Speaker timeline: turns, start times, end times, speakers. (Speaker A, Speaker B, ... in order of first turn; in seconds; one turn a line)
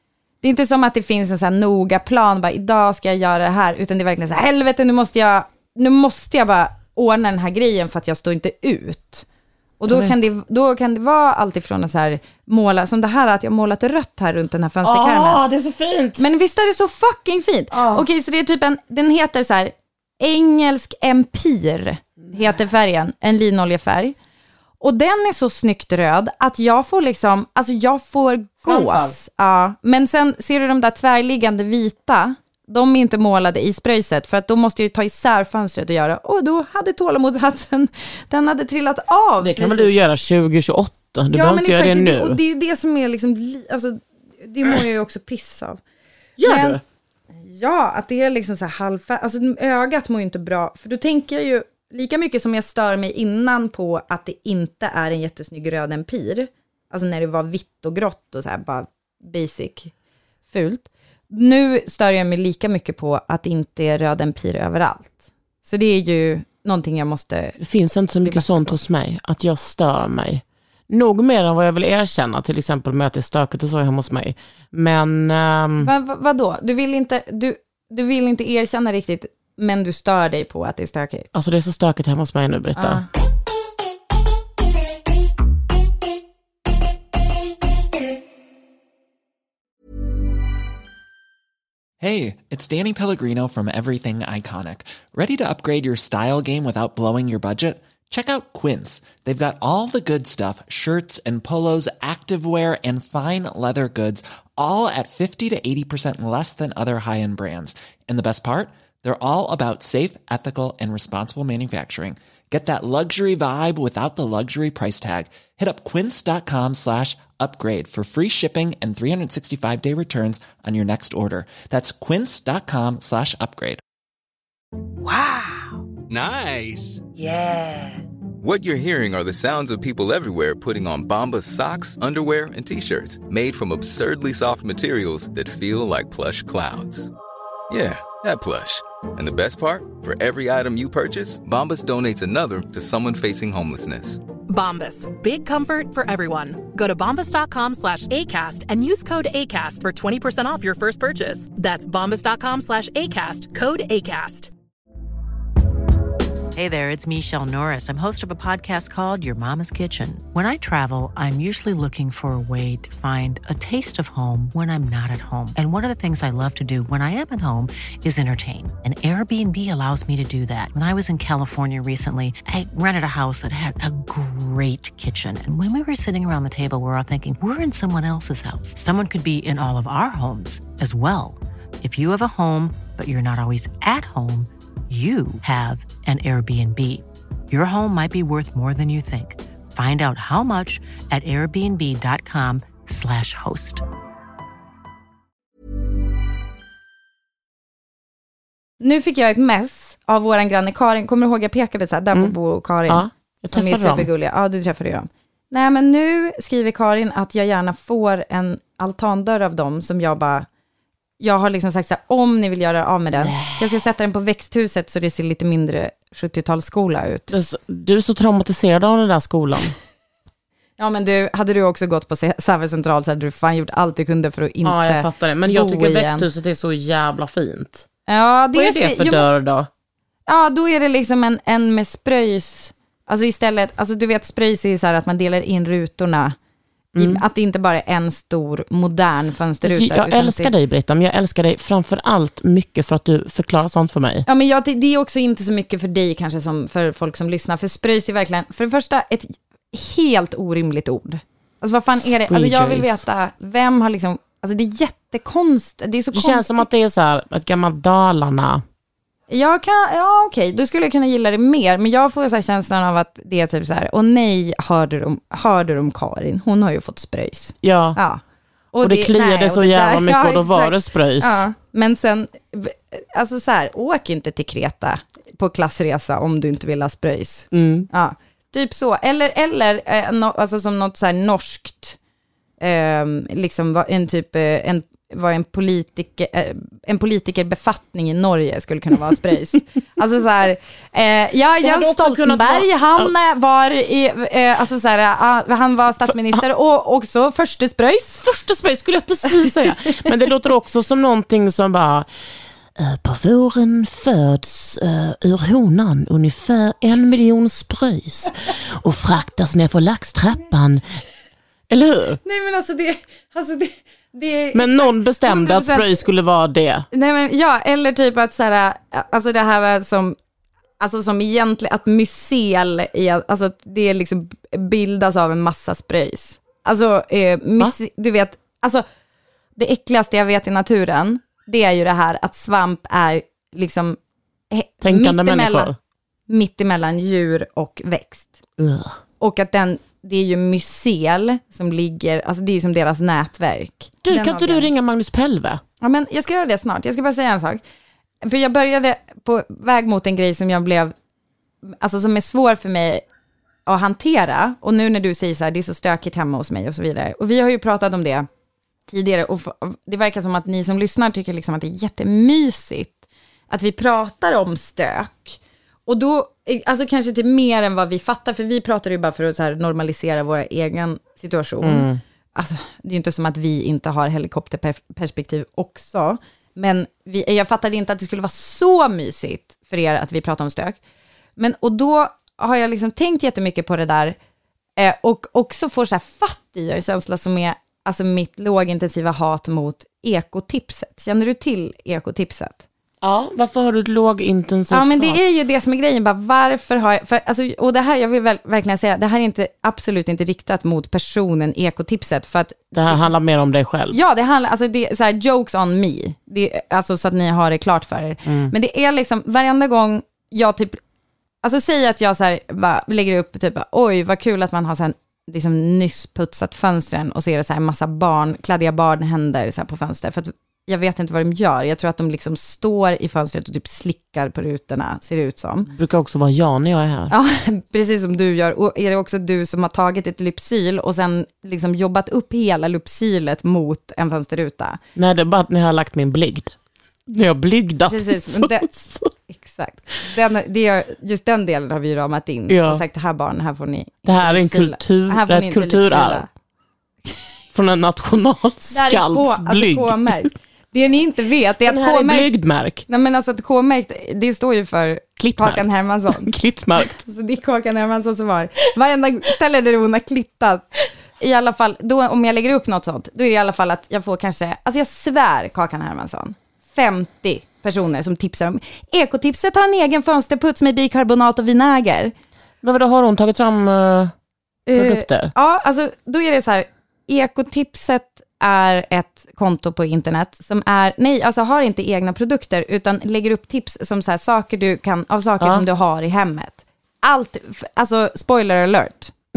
Speaker A: 0.4-9.3
Speaker A: 9.8-15.4
Speaker B: 9.9-10.3
Speaker B: 14.8-16.2
Speaker A: 16.2-24.1
Speaker B: 17.7-18.1
Speaker B: 22.2-22.6
Speaker A: 24.8-39.9
Speaker B: 28.6-29.1
Speaker B: 39.4-42.4
Speaker A: 41.3-45.8
Speaker B: 46.4-46.8
Speaker A: 46.4-46.8
Speaker A: 47.4-59.9
Speaker A: 60.5-67.6
Speaker B: 67.6-75.9
Speaker A: 68.2-68.8
Speaker A: 75.8-81.3
Speaker B: 81.3-83.0
Speaker A: 82.8-83.1
Speaker C: 92.0-123.8
Speaker D: 128.4-137.1
Speaker D: 137.7-144.2
Speaker E: 144.5-154.5
Speaker F: 156.6-193.8
Speaker A: 198.8-210.5
Speaker B: 202.9-204.1
Speaker A: 211.2-217.3
Speaker B: 213.2-213.7
Speaker B: 217.3-219.8
Speaker A: 220.8-226.3
Speaker B: 224.6-227.9
Speaker A: 228.1-229.3
Speaker B: 228.5-229.7
Speaker A: 230.3-236.4
Speaker B: 236.9-237.2
Speaker A: 237.0-240.5
Speaker B: 239.6-244.3
Speaker A: 244.3-256.7
Speaker B: 251.9-253.0
Speaker B: 256.1-258.6
Speaker A: 259.3-268.2
Speaker B: 267.6-268.0
Speaker A: 268.7-282.0
Speaker B: 268.8-271.4
Speaker B: 277.5-277.9
Speaker A: 282.6-298.3
Speaker B: 291.6-293.1
Speaker B: 296.1-296.4
Speaker B: 298.2-302.1
Speaker B: 302.8-310.8
Speaker B: 311.7-312.2
Speaker A: 312.2-316.0
Speaker B: 314.5-316.9
Speaker A: 316.9-320.2
Speaker A: 320.8-328.8
Speaker A: 329.6-334.0
Speaker A: 334.5-335.7
Speaker B: 334.8-335.8
Speaker A: 336.3-338.4
Speaker B: 338.6-339.0
Speaker A: 339.2-344.7
Speaker B: 344.0-345.6
Speaker A: 345.8-347.6
Speaker A: 348.2-350.9
Speaker A: 351.7-353.0
Speaker A: 353.7-358.3
Speaker A: 358.9-380.8
Speaker B: 371.6-372.0
Speaker A: 381.4-384.2
Speaker A: 384.8-392.6
Speaker B: 393.0-395.2
Speaker A: 394.7-403.1
Speaker B: 402.7-404.0
Speaker A: 403.9-410.8
Speaker B: 408.2-408.5
Speaker A: 411.4-425.7
Speaker B: 425.7-427.1
Speaker A: 427.1-434.8
Speaker B: 435.0-436.6
Speaker B: 437.1-439.1
Speaker A: 437.9-438.7
Speaker A: 439.3-446.3
Speaker B: 442.5-442.8
Speaker B: 444.1-446.3
Speaker B: 447.5-450.3
Speaker A: 448.7-452.3
Speaker B: 451.6-452.9
Speaker A: 452.9-456.3
Speaker B: 455.2-457.0
Speaker A: 457.0-472.1
Speaker B: 472.6-474.1
Speaker A: 474.7-489.1
Speaker B: 474.7-475.3
Speaker B: 485.4-485.6